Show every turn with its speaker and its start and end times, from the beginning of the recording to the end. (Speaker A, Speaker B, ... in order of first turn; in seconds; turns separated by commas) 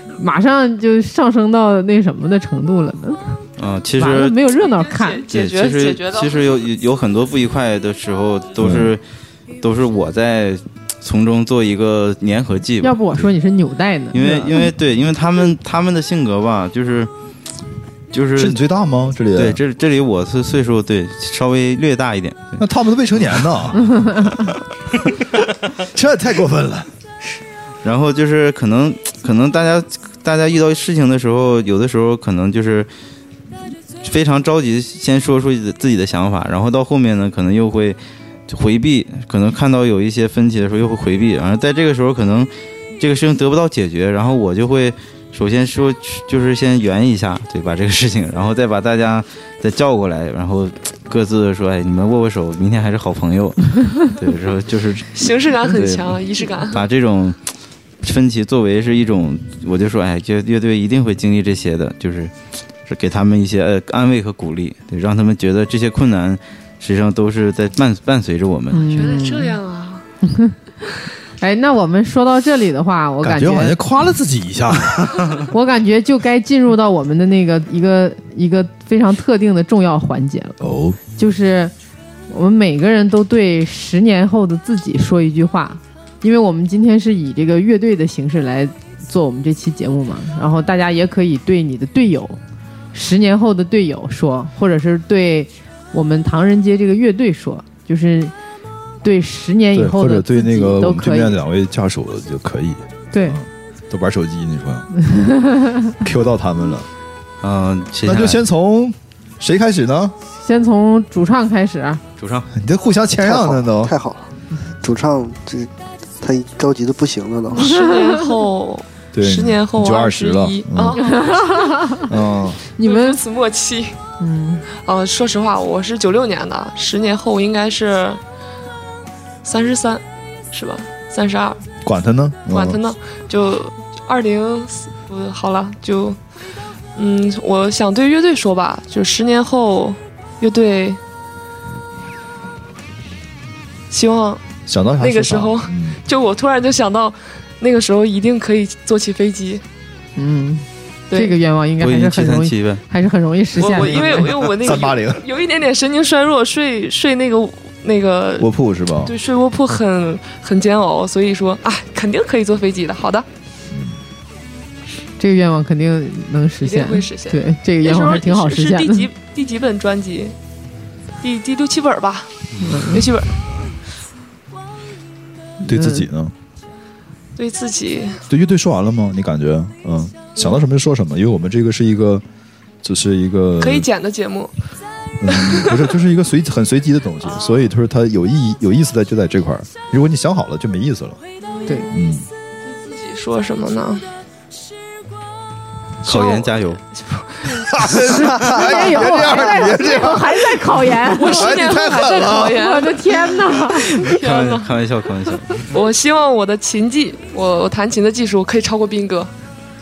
Speaker A: 0.2-3.4, Speaker B: 3.6-4.4, Speaker A: 4.0-5.3, Speaker C: 4.7-6.4, Speaker B: 5.3-9.0, Speaker D: 8.6-8.9, Speaker B: 9.6-13.2, Speaker A: 12.8-14.7, Speaker B: 14.1-17.1, Speaker B: 18.1-18.6, Speaker D: 18.4-19.6, Speaker B: 19.3-22.6, Speaker D: 22.6-24.5, Speaker D: 25.7-26.9, Speaker B: 27.8-32.9, Speaker B: 34.0-57.4, Speaker C: 55.1-56.8, Speaker B: 58.0-62.3, Speaker B: 62.9-69.0, Speaker A: 68.7-69.5, Speaker C: 68.9-70.0, Speaker A: 70.2-70.5, Speaker A: 71.4-73.7, Speaker D: 73.2-75.4, Speaker A: 75.5-80.6, Speaker D: 80.6-81.0, Speaker A: 81.2-81.7, Speaker A: 82.3-92.4, Speaker A: 92.9-98.3, Speaker A: 99.0-101.4, Speaker D: 99.7-104.9, Speaker A: 103.1-103.4, Speaker A: 105.1-105.9, Speaker D: 106.0-106.9, Speaker B: 107.4-108.4, Speaker D: 108.0-110.1, Speaker A: 110.4-112.0, Speaker B: 112.2-112.5, Speaker D: 112.5-113.9, Speaker E: 113.2-114.3, Speaker E: 114.8-117.8, Speaker C: 117.5-122.0, Speaker A: 117.7-118.2, Speaker D: 119.1-121.0, Speaker A: 121.0-122.1, Speaker D: 122.0-122.6, Speaker A: 122.8-123.2, Speaker C: 122.8-123.9, Speaker A: 124.2-124.7, Speaker C: 124.8-128.2, Speaker C: 129.4-130.0, Speaker C: 130.5-131.6, Speaker D: 131.8-132.8, Speaker C: 132.5-136.2, Speaker C: 137.0-141.0, Speaker C: 143.9-144.4, Speaker D: 144.7-146.0, Speaker C: 145.0-149.6, Speaker A: 150.2-154.4, Speaker B: 151.8-152.8, Speaker C: 153.6-158.4, Speaker D: 153.8-155.2, Speaker D: 158.4-159.1, Speaker C: 159.1-163.2, Speaker D: 163.7-164.0, Speaker A: 165.2-169.1, Speaker C: 166.6-170.3, Speaker C: 171.2-172.3, Speaker A: 172.6-173.1, Speaker C: 172.9-173.3, Speaker A: 175.6-176.1, Speaker D: 175.6-176.3, Speaker C: 177.4-178.2, Speaker D: 178.3-182.2, Speaker D: 182.8-183.9, Speaker C: 183.6-184.5, Speaker D: 185.2-191.2, Speaker C: 191.5-191.9, Speaker D: 191.9-192.3, Speaker C: 192.8-194.0, Speaker B: 196.0-196.8, Speaker C: 196.0-197.6, Speaker D: 197.5-202.6, Speaker A: 198.0-201.6, Speaker C: 201.1-203.1, Speaker A: 202.3-203.9, Speaker C: 204.0-204.7, Speaker B: 204.1-205.7, Speaker C: 205.7-209.3